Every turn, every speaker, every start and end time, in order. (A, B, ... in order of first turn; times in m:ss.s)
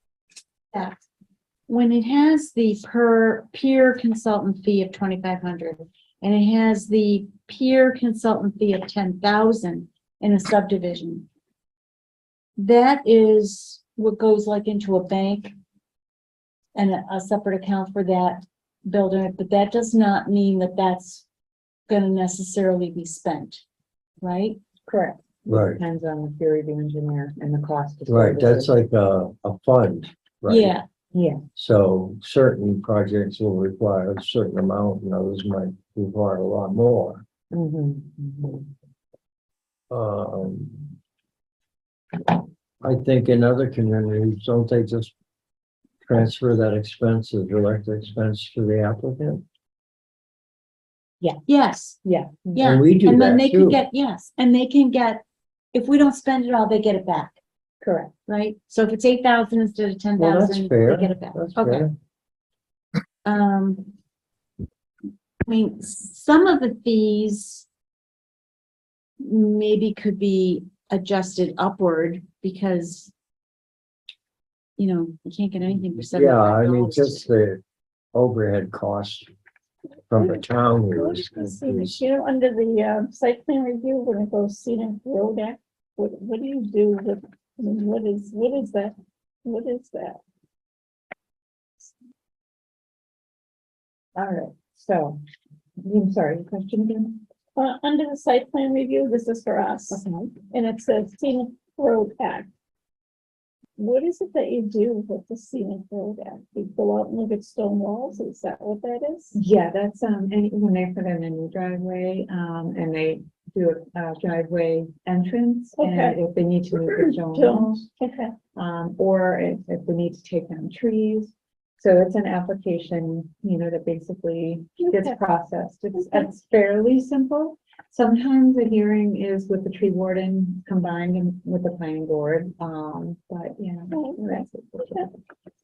0:00.7-0:01.0 A
0:01.7-0:11.3 A
0:12.6-0:15.5 A
0:16.8-0:21.2 A
0:21.9-0:23.6 A
0:24.2-0:24.6 A
0:24.9-0:28.7 B
0:25.5-0:25.8 C
0:28.1-0:30.8 C
0:30.5-0:30.8 A
0:31.1-0:31.4 B
0:31.6-0:37.2 C
0:37.5-0:38.6 B
0:39.9-0:40.9 C
0:42.8-0:45.1 C
0:46.0-0:49.4 C
0:51.5-0:52.0 A
0:52.0-0:52.8 B
0:52.6-0:57.4 A
0:52.6-0:53.8 C
0:57.8-0:58.1 B
0:58.3-1:01.9 A
1:00.2-1:01.9 C
1:03.2-1:03.9 A
1:05.5-1:07.7 A
1:09.2-1:13.1 A
1:14.8-1:17.3 A
1:16.1-1:17.6 C
1:18.1-1:19.3 C
1:20.1-1:22.0 C
1:20.1-1:30.2 D
1:34.2-1:35.2 B
1:35.8-1:37.2 B
1:37.6-1:42.5 D
1:39.9-1:40.4 B
1:43.8-1:49.4 D
1:49.4-1:57.8 B
1:55.8-1:56.2 D
1:56.7-1:58.4 D
1:58.6-2:15.2 B
2:04.8-2:05.2 D
2:06.0-2:06.3 D
2:13.9-2:15.1 D